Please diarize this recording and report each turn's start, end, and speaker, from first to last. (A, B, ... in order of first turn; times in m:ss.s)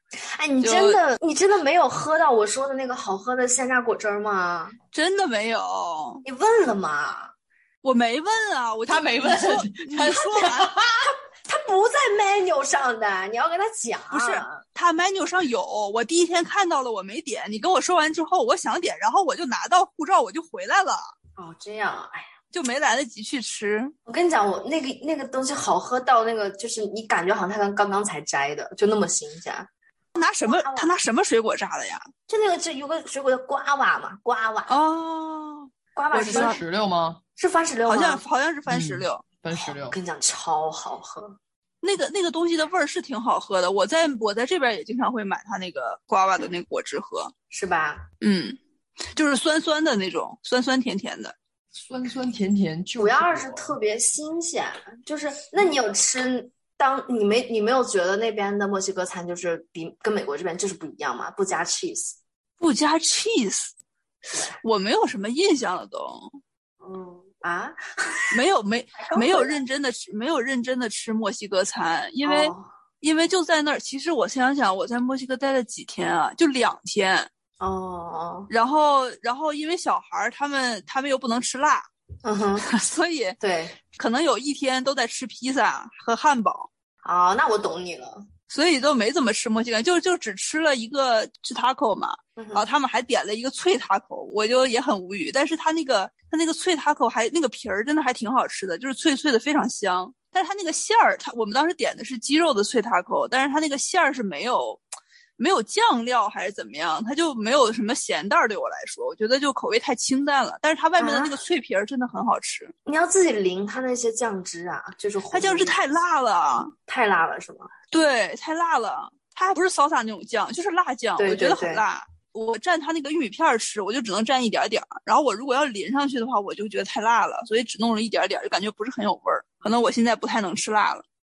0:00.2-0:04.8 A
0:00.6-0:01.0 B
0:04.9-0:06.2 B
0:06.2-0:07.3 A
0:07.8-0:10.7 B
0:08.9-0:10.0 C
0:09.2-0:10.8 A
0:11.5-0:14.6 A
0:14.1-0:21.0 B
0:21.4-0:22.3 A
0:22.5-0:23.9 B
0:24.0-0:29.7 A
0:30.2-0:32.1 B
0:30.4-0:30.9 A
0:32.3-0:34.8 A
0:34.7-0:36.6 B
0:36.0-0:36.6 A
0:36.3-0:37.2 C
0:37.4-0:38.2 A
0:37.9-0:39.2 B
0:38.7-0:40.0 C
0:39.5-0:41.4 A
0:41.8-0:47.3 B
0:47.5-0:48.1 A
0:48.2-0:48.6 B
0:49.1-0:51.3 B
0:51.7-0:53.7 C
0:53.0-1:02.2 A
1:02.6-1:03.7 B
1:04.3-1:04.6 A
1:04.6-1:06.3 B
1:06.8-1:08.3 A
1:08.3-1:17.3 B
1:09.0-1:09.6 A
1:12.2-1:12.7 A
1:17.6-1:18.5 A
1:18.5-1:21.9 B
1:22.2-1:22.7 A
1:22.6-1:23.4 B
1:23.4-1:23.7 A
1:24.0-1:26.7 B
1:27.0-1:28.2 A
1:28.5-1:44.8 B
1:32.4-1:32.6 A
1:45.4-1:52.7 B
1:51.0-1:51.4 A
1:52.8-1:55.8 A
1:55.3-1:56.7 B
1:56.9-1:57.7 A
1:57.9-2:11.0 B
2:01.2-2:01.8 A